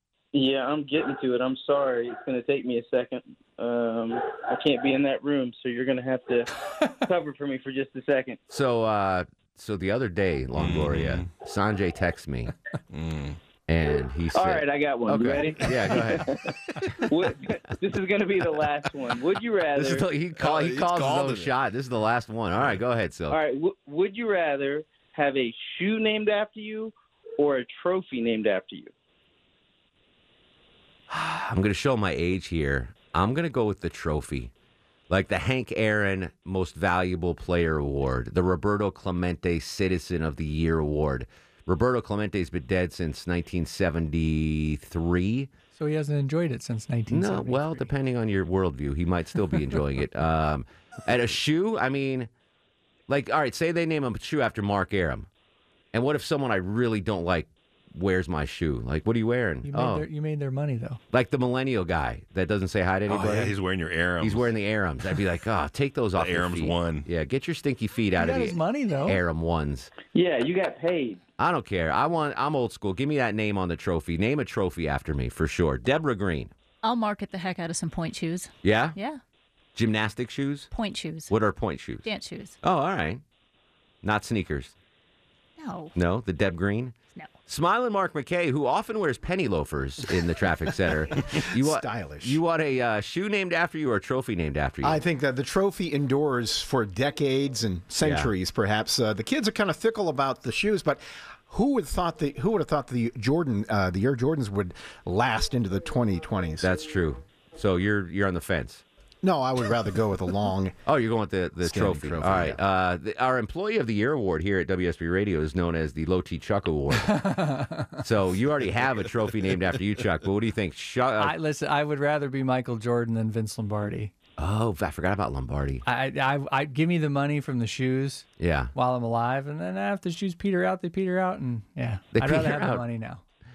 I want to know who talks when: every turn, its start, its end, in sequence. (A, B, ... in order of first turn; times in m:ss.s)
0:00.3-0:06.5 A
0:07.0-0:08.4 A
0:08.5-0:12.5 B
0:10.6-0:11.3 C
0:12.9-0:13.4 C
0:13.7-0:16.3 B
0:14.3-0:16.4 A
0:17.1-0:20.0 A
0:19.8-0:23.4 B
0:20.4-0:21.6 C
0:23.3-0:28.9 A
0:31.1-0:34.5 B
0:35.1-0:45.5 B
0:45.7-0:47.9 D
0:47.1-0:52.3 B
0:53.1-0:55.3 B
0:55.9-1:00.0 B
0:59.6-1:01.0 D
1:01.1-1:03.5 B
1:03.1-1:04.5 C
1:04.2-1:09.9 B
1:06.2-1:07.1 C
1:08.2-1:09.2 D
1:10.1-1:11.2 A
1:11.4-1:16.5 B
1:16.8-1:19.2 E
1:18.6-1:19.0 B
1:19.7-1:20.7 B
1:20.7-1:21.3 E
1:21.3-1:22.1 B
1:22.0-1:22.6 E
1:22.6-1:23.2 B
1:24.0-1:24.7 B
1:25.6-1:25.9 E
1:25.9-1:26.9 B
1:27.5-1:35.0 B
1:31.5-1:32.4 F
1:34.8-1:46.7 F
1:38.0-1:38.3 B
1:46.6-1:48.8 B
1:49.2-1:50.8 F
1:50.8-1:57.1 B
1:51.6-1:52.6 F
1:56.9-1:58.0 D
1:58.0-2:01.4 B
2:01.2-2:04.1 D
2:04.4-2:05.8 B
2:05.8-2:13.2 D
2:08.4-2:08.7 B
2:12.1-2:12.8 B